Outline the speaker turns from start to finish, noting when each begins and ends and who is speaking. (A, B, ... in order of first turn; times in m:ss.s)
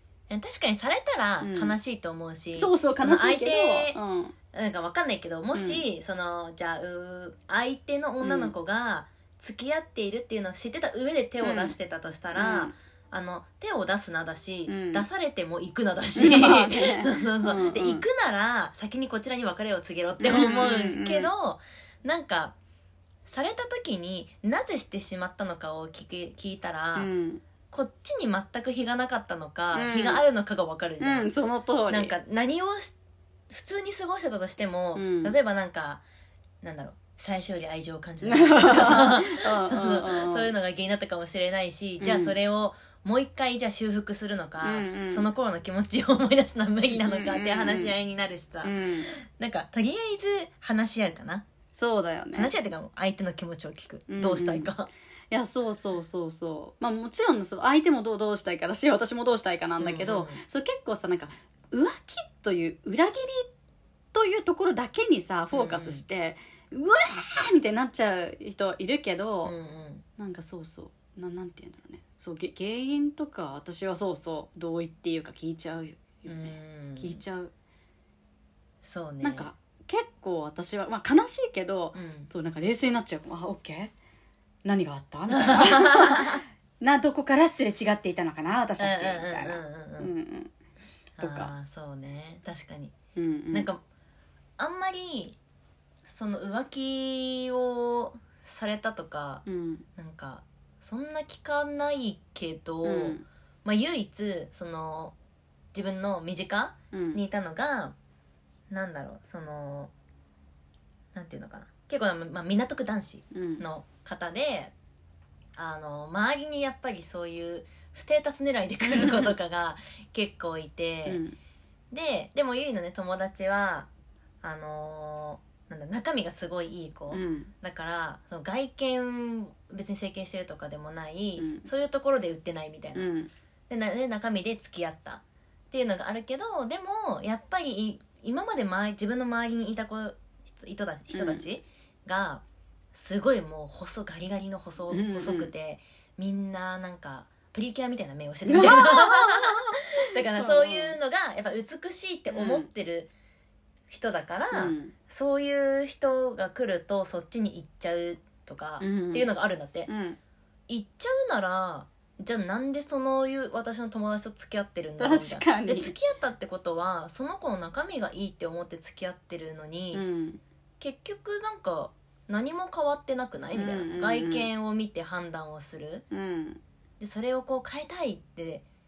0:00.3-0:04.0 A
0:01.4-0:01.8 B
0:02.6-0:04.4 B
0:04.5-0:22.6 A
0:05.5-0:05.8 B
0:08.2-0:08.5 B
0:11.4-0:11.8 B
0:12.4-0:12.7 B
0:14.7-0:15.1 B
0:16.2-0:18.1 B
0:20.2-0:21.3 B
0:23.3-0:27.1 A
0:27.0-0:27.4 B
0:27.7-0:31.3 A
0:29.7-0:30.2 B
0:31.0-0:32.2 B
0:31.9-0:33.0 A
0:33.5-0:36.0 A
0:35.0-0:35.4 B
0:36.6-0:51.4 A
0:38.2-0:40.5 B
0:42.0-0:42.4 B
0:44.6-0:45.3 B
0:46.9-0:47.9 B
0:48.6-0:49.1 B
0:51.8-0:52.5 B
0:52.3-0:54.9 A
0:54.1-0:54.7 B
0:55.3-1:03.5 B
0:59.8-1:00.4 A
1:04.1-1:09.6 B
1:05.5-1:06.0 A
1:09.4-1:10.0 A
1:10.2-1:17.5 B
1:16.3-1:17.2 A
1:18.8-1:19.5 A
1:19.2-1:23.9 B
1:21.9-1:22.3 A
1:24.6-1:30.5 B
1:25.4-1:26.4 A
1:28.8-1:30.1 A
1:31.2-1:33.0 A
1:31.2-1:31.5 B
1:33.2-1:33.7 B
1:33.5-1:33.8 A
1:34.6-1:35.4 A
1:36.0-1:39.4 A
1:39.5-1:39.8 B
1:40.0-1:45.2 A
1:42.8-1:43.2 B
1:45.7-1:48.0 A
1:46.9-1:47.2 B
1:48.7-1:49.9 A
1:51.1-1:54.7 A
1:53.3-1:53.6 B
1:55.6-2:01.2 A
1:58.8-1:59.4 B
2:01.1-2:01.4 B
2:01.9-2:03.9 A
2:04.4-2:13.1 A
2:07.1-2:07.5 B
2:11.4-2:11.7 B
2:13.0-2:13.3 B
2:13.7-2:33.1 A
2:21.1-2:21.4 B
2:24.9-2:25.5 B
2:28.5-2:31.0 B
2:32.3-2:32.7 B
2:33.9-2:39.9 A
2:34.5-2:35.0 B
2:38.8-2:39.3 B
2:39.9-2:40.2 B
2:40.7-2:50.0 A
2:45.0-2:45.9 B
2:49.9-2:50.4 B
2:50.8-2:56.0 A
2:53.5-2:54.5 B
2:56.1-2:56.6 B
2:57.0-2:58.6 A